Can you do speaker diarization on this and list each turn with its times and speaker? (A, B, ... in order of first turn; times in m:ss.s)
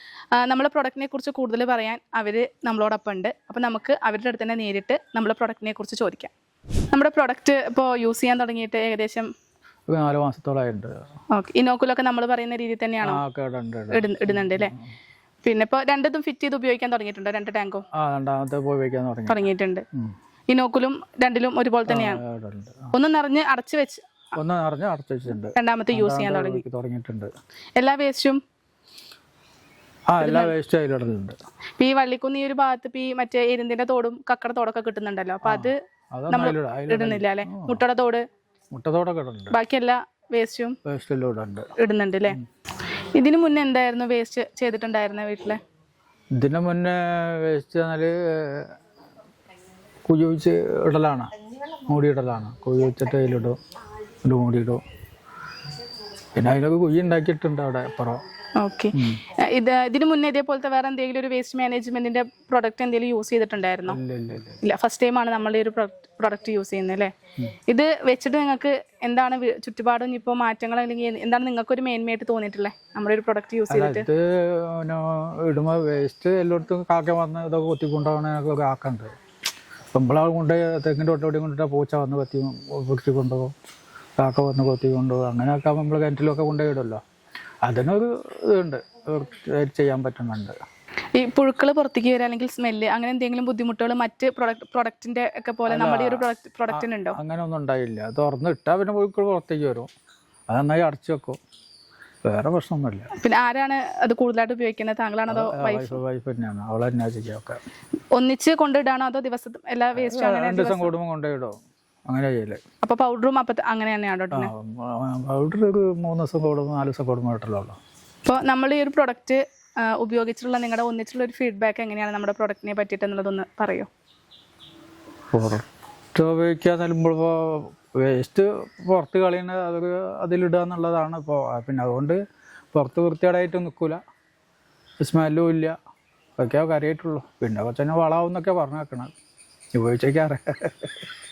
0:00.4-0:06.3 A
0:06.9-0:09.3 A
0:09.9-0:10.9 B
0:11.3-0:13.2 A
0:13.0-0:14.8 B
0:13.9-0:14.7 A
0:15.4-0:17.8 A
0:17.9-0:19.4 B
0:19.3-0:19.8 A
0:20.5-0:22.2 A
0:21.9-0:22.9 B
0:22.9-0:24.0 A
0:24.4-0:27.3 B
0:25.6-0:26.6 A
0:27.8-0:28.4 A
0:30.1-0:31.4 B
0:30.2-0:30.5 A
0:31.8-0:35.8 A
0:35.4-0:37.9 B
0:36.3-0:38.2 A
0:38.7-0:39.6 B
0:39.5-0:40.8 A
0:40.8-0:41.7 B
0:41.8-0:45.6 A
0:46.4-0:48.7 B
0:50.1-0:53.6 B
0:54.2-0:54.8 B
0:56.4-0:58.2 B
0:58.6-1:04.0 A
0:58.9-0:59.2 B
1:03.9-1:04.6 B
1:04.6-1:14.1 A
1:13.7-1:19.1 B
1:19.9-1:23.5 B
1:24.2-1:27.0 B
1:27.6-1:30.5 B
1:31.2-1:37.2 A
1:35.7-1:39.9 B
1:40.5-1:41.4 B
1:42.2-1:43.1 B
1:43.2-1:46.0 A
1:45.3-1:47.6 B
1:48.1-1:50.9 A
1:50.0-1:51.6 B
1:52.1-1:52.6 B
1:52.8-1:54.5 A
1:54.3-1:57.8 B
1:58.3-2:03.9 A
2:05.3-2:05.6 B
2:06.2-2:12.2 B
2:12.7-2:14.0 B
2:15.0-2:15.8 B
2:16.4-2:19.1 B
2:19.7-2:21.1 B